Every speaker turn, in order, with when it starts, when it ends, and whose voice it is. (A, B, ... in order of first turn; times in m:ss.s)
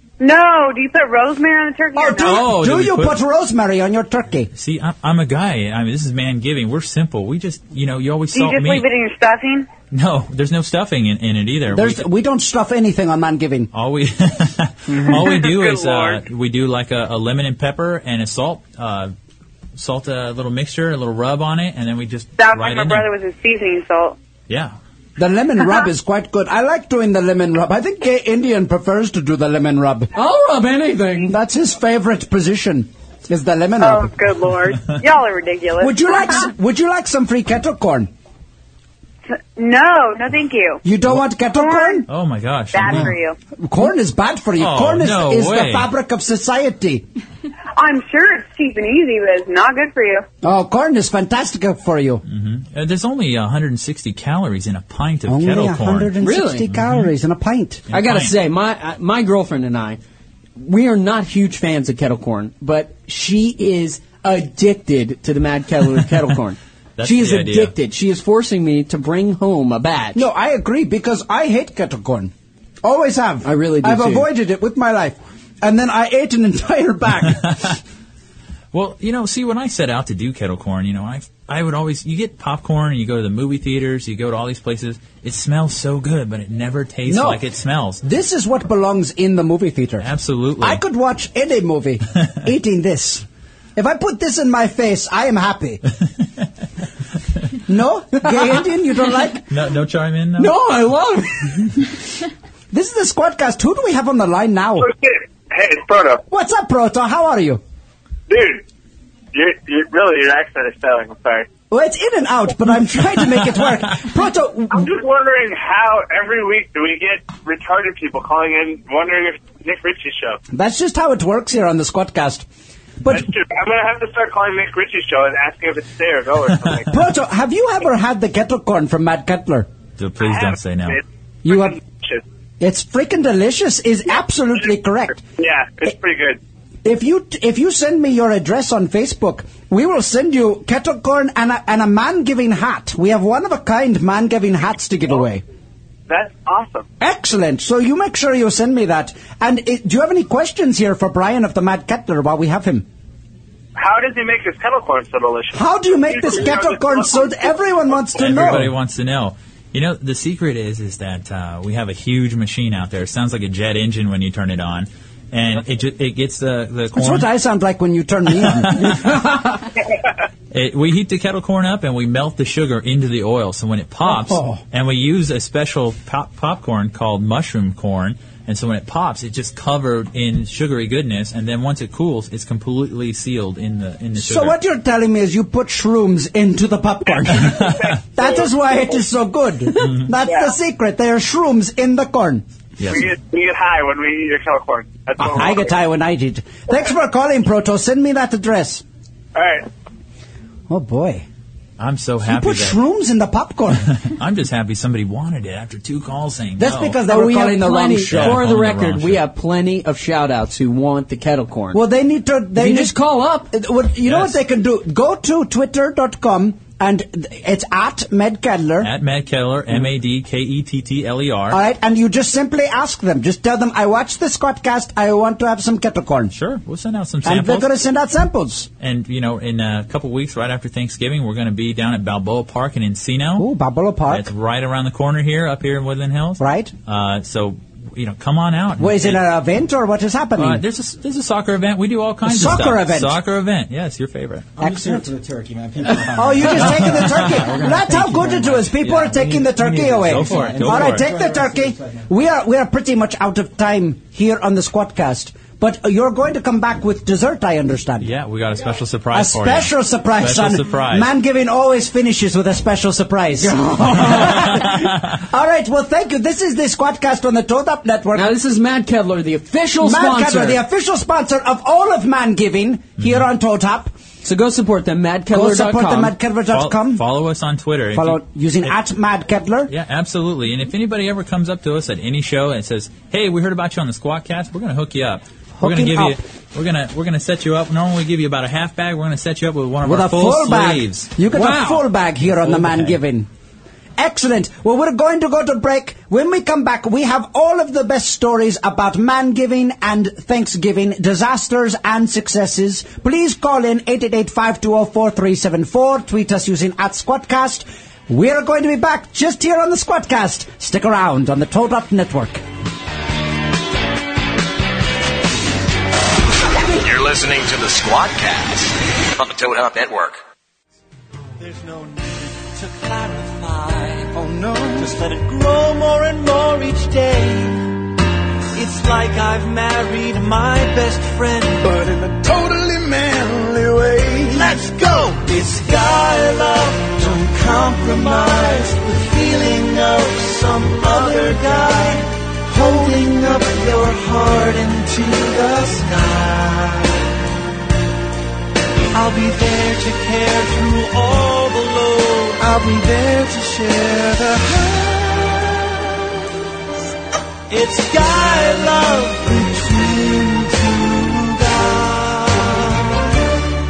0:00.2-0:02.4 A
0:02.0-0:04.5 B
0:02.2-0:03.2 C
0:04.5-0:08.8 C
0:08.3-0:09.7 A
0:09.9-0:12.0 C
0:11.7-0:13.7 B
0:13.7-0:19.1 C
0:14.9-0:15.2 D
0:15.4-0:16.2 A
0:19.8-0:23.1 C
0:22.4-0:24.2 A
0:24.5-0:24.7 C
0:25.2-0:30.1 B
0:30.1-0:31.3 D
0:31.3-0:34.1 B
0:33.8-0:36.4 A
0:35.8-0:38.1 B
0:39.5-0:40.8 A
0:40.8-0:42.1 B
0:41.5-0:42.0 A
0:42.0-0:43.2 C
0:42.7-0:43.4 A
0:43.6-0:47.0 B
0:44.5-0:45.9 C
0:47.8-0:50.2 A
0:50.4-0:52.2 B
0:52.2-0:56.1 C
0:55.2-0:57.8 B
0:56.2-0:56.7 D
0:56.7-0:57.1 C
0:57.9-0:58.4 C
0:57.9-1:00.0 D
1:00.6-1:10.2 D
1:07.0-1:07.7 C
1:10.1-1:12.3 B
1:12.8-1:17.6 B
1:13.4-1:14.3 D
1:17.3-1:17.8 C
1:18.7-1:28.0 C
1:27.1-1:27.4 B
1:28.0-1:30.1 B
1:30.0-1:30.8 C
1:30.6-1:35.8 B
1:37.7-1:39.4 B
1:39.5-1:40.6 C
1:40.4-1:41.7 D
1:42.7-1:44.9 B
1:44.8-1:46.2 E
1:46.3-1:47.6 B
1:48.3-1:48.6 E
1:49.3-1:51.4 E
1:51.7-1:54.9 B
1:54.7-2:00.4 E
2:00.5-2:02.4 B
2:03.0-2:03.3 B
2:03.1-2:06.9 E
2:06.9-2:09.7 B
2:10.0-2:11.0 C
2:10.2-2:12.2 E
2:11.4-2:11.8 B
2:12.6-2:15.2 B
2:15.4-2:16.4 E
2:16.8-2:25.4 B
2:26.1-2:26.8 E
2:27.0-2:32.8 B
2:33.7-2:38.0 E
2:35.5-2:38.7 B
2:38.1-2:47.3 C
2:46.9-2:49.5 B
2:48.4-2:49.2 C
2:50.5-3:04.6 C
2:54.0-2:54.6 B
3:04.2-3:12.4 B
3:07.3-3:07.9 C
3:07.8-3:08.3 E
3:10.3-3:10.5 E
3:12.8-3:13.1 C
3:12.9-3:15.7 E
3:15.2-3:18.8 B
3:19.3-3:19.6 E
3:20.7-3:21.2 B
3:21.8-3:22.8 C
3:22.2-3:23.9 B
3:24.0-3:27.0 C
3:26.6-3:28.4 B
3:27.0-3:31.8 D
3:27.9-3:29.2 C
3:31.7-3:33.0 B
3:32.5-3:33.5 D
3:33.5-3:38.9 B
3:34.0-3:34.4 C
3:38.8-3:41.6 C
3:41.5-3:46.3 B
3:46.3-3:47.7 C
3:47.2-3:48.7 B
3:48.8-3:53.5 C
3:53.4-3:54.3 B
3:54.0-3:59.2 C
3:56.4-3:56.7 B
3:58.8-4:00.6 B
4:00.4-4:04.5 C
4:02.2-4:03.2 B
4:04.6-4:12.0 F
4:04.6-4:05.1 B
4:05.9-4:18.1 B
4:10.0-4:11.0 C
4:18.0-4:21.1 C
4:19.1-4:28.3 B
4:23.4-4:24.6 D
4:24.0-4:24.9 C
4:28.1-4:30.6 D
4:29.8-4:33.9 B
4:33.0-4:33.2 C
4:34.2-4:36.2 D
4:35.3-4:37.0 B
4:36.5-4:38.7 C
4:37.9-4:39.7 B
4:39.7-4:51.1 C
4:45.6-4:46.2 B
4:49.8-4:53.3 B
4:51.3-4:51.9 D
4:52.5-4:52.9 C
4:54.0-5:12.4 B
5:16.8-5:20.1 G
5:21.4-5:27.9 H
5:28.5-5:47.0 H
5:48.9-5:55.8 H
5:57.5-6:03.3 H